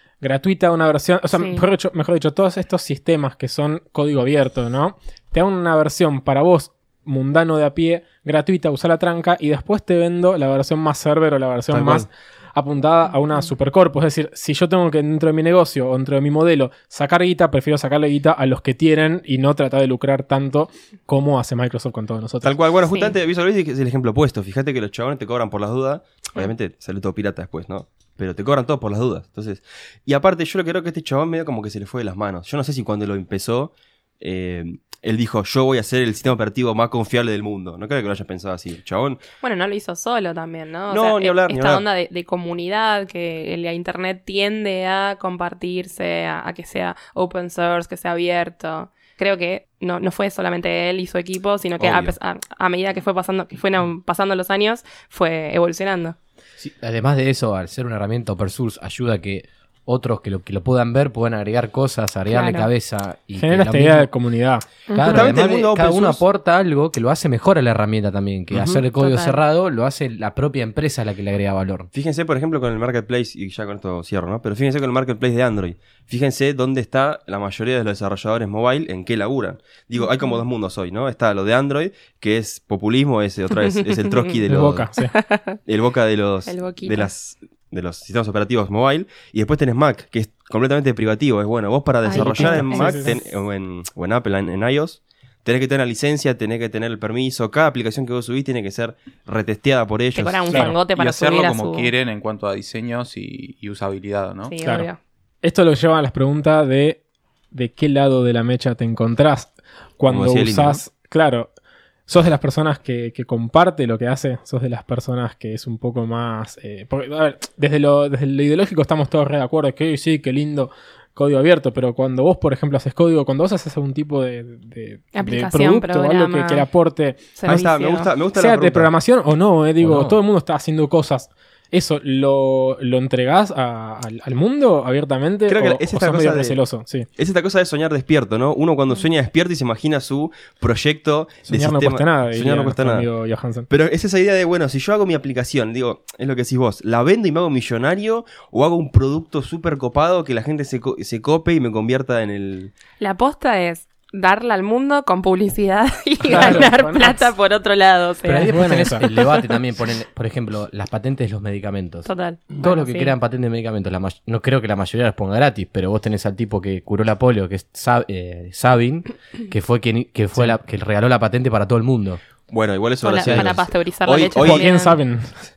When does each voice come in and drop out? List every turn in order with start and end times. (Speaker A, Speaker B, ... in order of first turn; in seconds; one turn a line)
Speaker A: 0.2-22.5
Speaker B: 1.3-1.6
Speaker C: 11.7-12.1
Speaker C: 22.4-39.2
Speaker B: 22.9-23.2
Speaker B: 39.4-56.2
Speaker C: 40.9-41.9
Speaker C: 51.8-52.1
Speaker D: 56.6-64.1
Speaker B: 62.3-62.7
Speaker A: 63.4-64.7
Speaker B: 64.9-65.3
Speaker D: 64.9-71.9
Speaker C: 65.0-66.2
Speaker C: 68.5-68.8
Speaker B: 69.0-69.4
Speaker C: 71.9-84.9
Speaker B: 84.0-84.4
Speaker A: 84.5-85.1
Speaker B: 85.0-85.6
Speaker C: 85.7-100.6
Speaker B: 86.5-87.1
Speaker B: 92.0-93.2
Speaker A: 92.1-93.2
Speaker B: 100.2-101.9
Speaker A: 100.5-100.8
Speaker E: 100.7-104.5
Speaker B: 104.5-105.0
Speaker A: 104.6-104.9
Speaker A: 105.4-107.0
Speaker A: 107.5-111.5
Speaker C: 110.1-110.8
Speaker A: 112.1-127.2
Speaker B: 125.1-126.7
Speaker B: 127.4-128.1
Speaker C: 127.5-128.9
Speaker A: 128.3-137.1
Speaker D: 129.8-130.2
Speaker C: 135.5-136.6
Speaker C: 137.2-143.1
Speaker A: 141.5-143.7
Speaker C: 143.7-152.7
Speaker B: 153.0-159.4
Speaker A: 156.2-157.3
Speaker D: 158.3-172.2
Speaker A: 158.5-159.1
Speaker B: 162.1-163.1
Speaker C: 172.5-174.7
Speaker B: 173.0-175.0
Speaker D: 173.3-173.5
Speaker A: 174.4-175.4